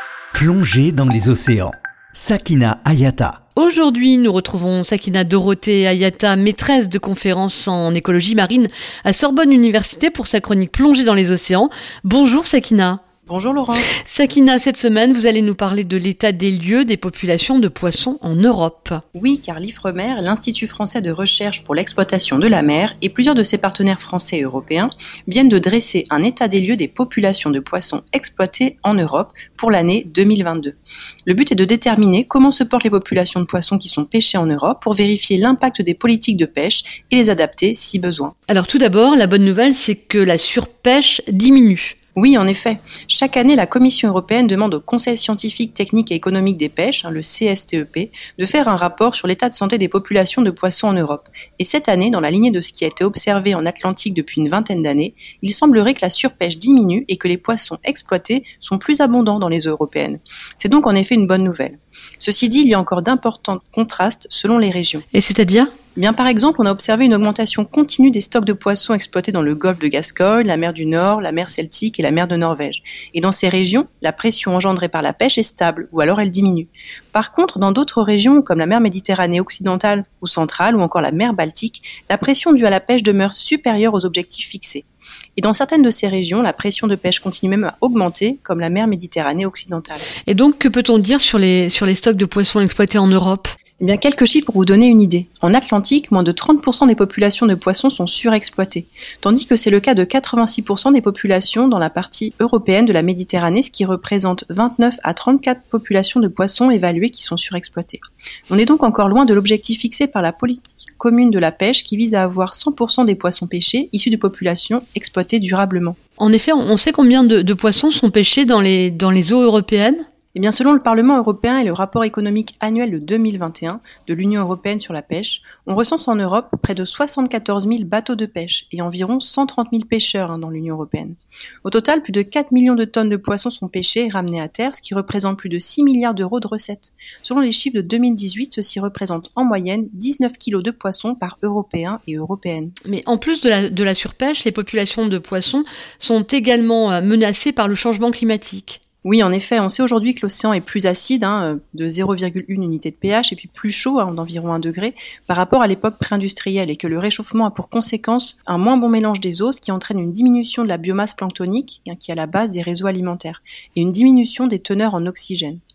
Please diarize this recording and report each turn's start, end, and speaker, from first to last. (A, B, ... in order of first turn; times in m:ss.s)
0:00.3-0:03.4 A
0:03.6-0:13.0 B
0:13.3-0:13.9 C
0:13.9-0:19.0 B
0:19.1-0:30.8 C
0:31.3-0:38.3 C
0:38.5-0:42.0 B
0:42.2-1:05.0 C
1:05.1-1:05.7 B
1:06.0-1:24.9 C
1:25.4-1:30.1 C
1:30.2-1:33.6 B
1:33.8-1:56.0 C
1:56.2-2:00.1 B
2:00.3-2:22.8 C
2:22.8-2:28.8 B
2:29.0-2:45.6 C